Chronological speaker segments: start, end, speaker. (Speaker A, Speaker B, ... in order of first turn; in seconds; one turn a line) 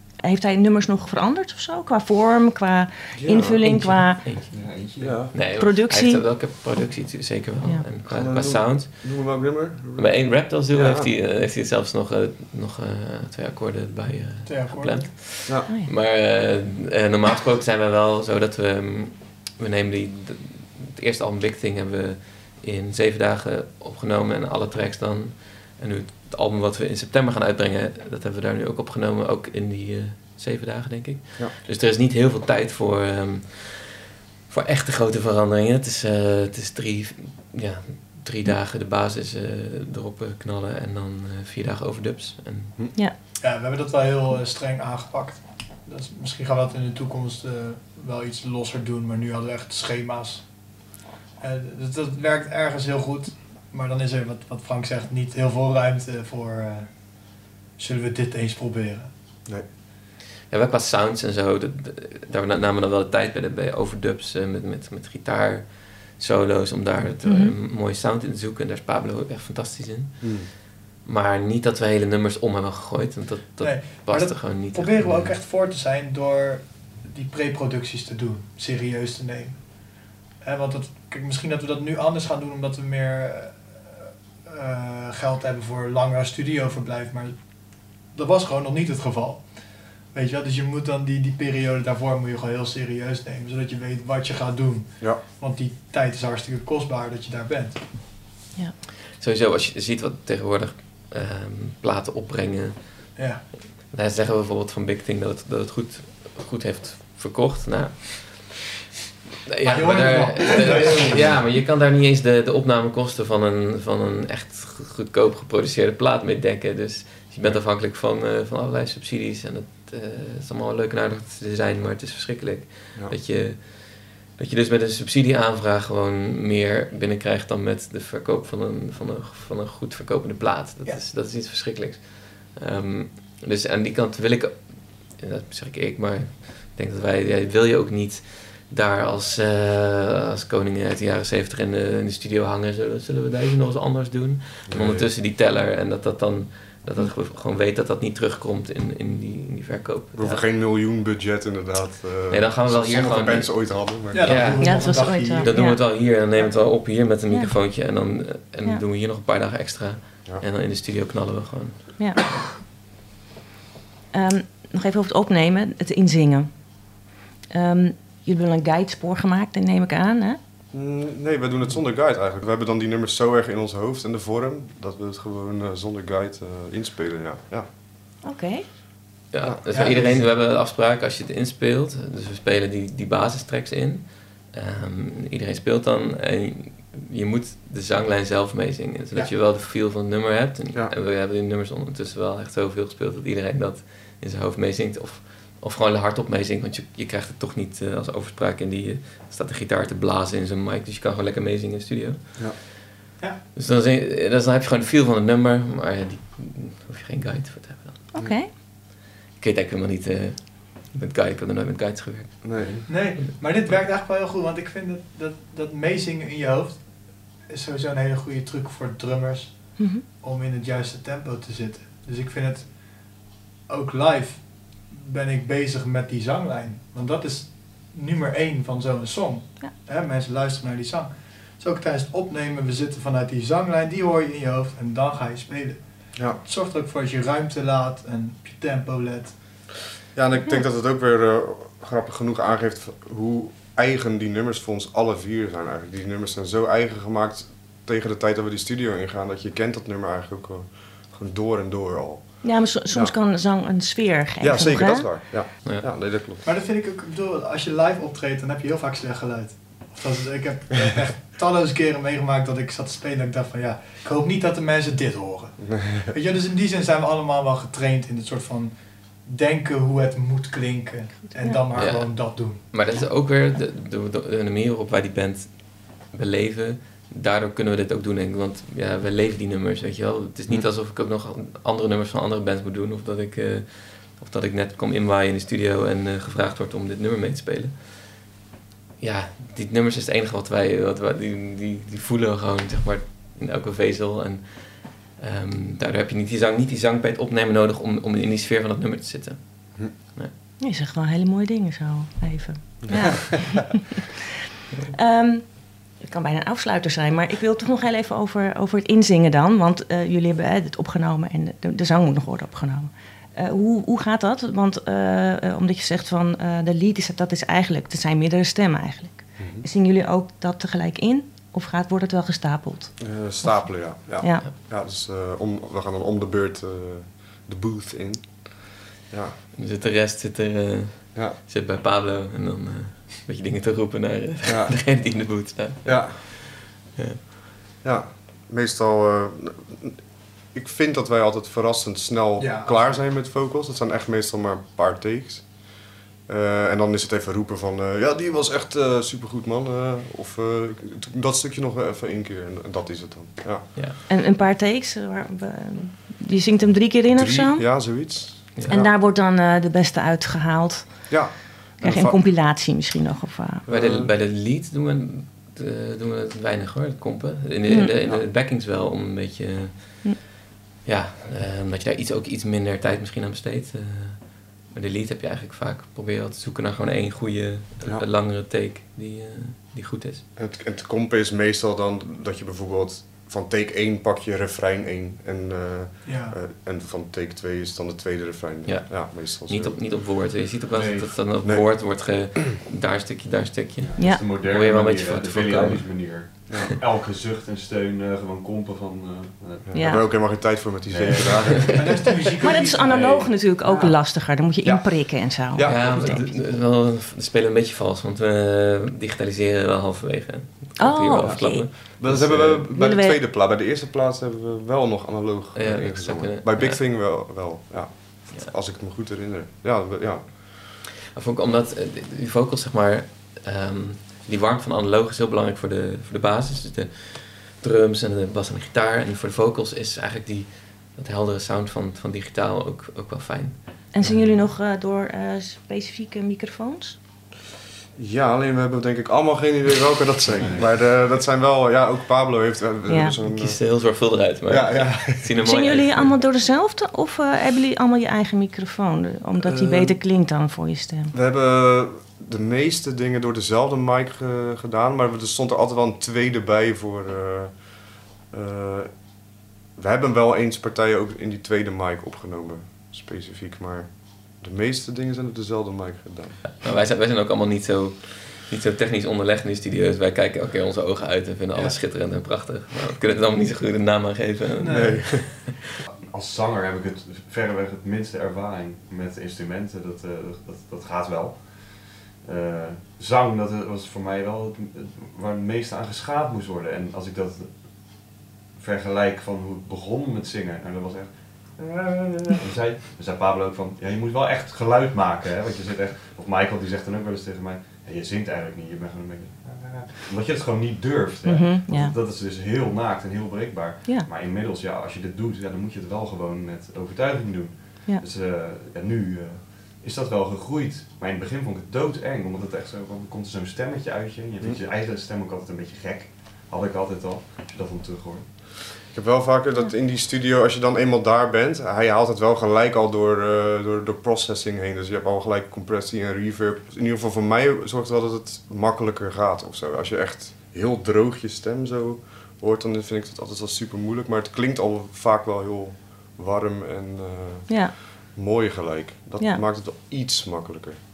Speaker A: 0.2-4.2
Speaker B: 3.2-3.6
Speaker C: 3.6-42.8
Speaker D: 4.5-5.3
Speaker B: 5.0-5.3
Speaker A: 5.5-6.3
Speaker B: 8.1-11.1
Speaker E: 14.5-15.1
Speaker E: 43.4-59.1
Speaker C: 60.5-75.3
Speaker A: 67.2-67.5
Speaker B: 70.2-70.5
Speaker E: 73.6-97.9
Speaker C: 99.2-108.6
Speaker E: 103.2-103.4
Speaker C: 109.5-150.5
Speaker E: 109.7-111.4
Speaker B: 144.7-145.1
Speaker B: 150.1-154.6
Speaker C: 152.3-161.9
Speaker E: 154.1-155.7
Speaker A: 154.6-155.8
Speaker A: 157.3-157.9
Speaker A: 164.1-170.4
Speaker B: 170.7-177.7
Speaker A: 178.2-178.7
Speaker C: 179.3-202.7
Speaker B: 179.4-180.3
Speaker E: 179.7-180.2
Speaker C: 203.6-208.1
Speaker A: 208.1-208.5
Speaker C: 209.3-212.6
Speaker B: 212.4-212.8
Speaker D: 212.6-212.9
Speaker E: 212.9-239.6
Speaker C: 213.4-213.8
Speaker A: 219.8-220.0
Speaker B: 236.2-236.4
Speaker B: 240.1-253.2
Speaker A: 252.4-255.2
Speaker B: 254.4-256.4
Speaker C: 255.7-256.1
Speaker E: 256.4-272.6
Speaker B: 265.6-266.1
Speaker A: 271.4-271.6
Speaker C: 271.7-288.3
Speaker C: 289.0-300.3
Speaker A: 300.6-303.8
Speaker A: 304.9-324.4
Speaker B: 319.4-319.7
Speaker B: 323.0-329.4
Speaker C: 329.6-337.2
Speaker B: 334.4-335.2
Speaker B: 335.9-336.2
Speaker B: 337.8-353.7
Speaker E: 342.4-343.0
Speaker A: 354.1-358.0
Speaker B: 357.1-358.9
Speaker C: 358.6-358.8
Speaker A: 358.7-363.6
Speaker B: 361.1-362.2
Speaker B: 363.7-364.1
Speaker C: 363.7-370.3
Speaker A: 367.7-367.9
Speaker C: 370.9-380.2
Speaker B: 380.4-389.8
Speaker E: 386.0-386.4
Speaker C: 388.6-396.6
Speaker D: 390.7-391.2
Speaker B: 391.4-392.4
Speaker D: 393.8-400.2
Speaker A: 394.0-394.2
Speaker B: 396.5-396.8
Speaker B: 399.6-402.0
Speaker A: 399.7-400.5
Speaker D: 400.9-402.0
Speaker C: 401.7-402.0
Speaker E: 401.7-402.9
Speaker A: 402.4-406.4
Speaker D: 402.9-403.3
Speaker B: 403.6-406.3
Speaker C: 405.6-412.7
Speaker A: 410.8-412.0
Speaker B: 411.2-420.5
Speaker A: 412.7-413.2
Speaker C: 415.5-416.9
Speaker C: 421.1-433.9
Speaker A: 433.9-437.0
Speaker B: 437.9-445.8
Speaker D: 440.4-440.8
Speaker A: 442.9-443.2
Speaker C: 443.2-446.1
Speaker A: 445.4-451.1
Speaker B: 449.4-450.0
Speaker B: 451.1-466.5
Speaker C: 466.6-475.3
Speaker E: 471.5-471.8
Speaker E: 474.6-475.0
Speaker B: 474.7-475.6
Speaker D: 476.1-518.4
Speaker A: 501.2-501.9
Speaker B: 518.8-540.8
Speaker A: 537.5-537.7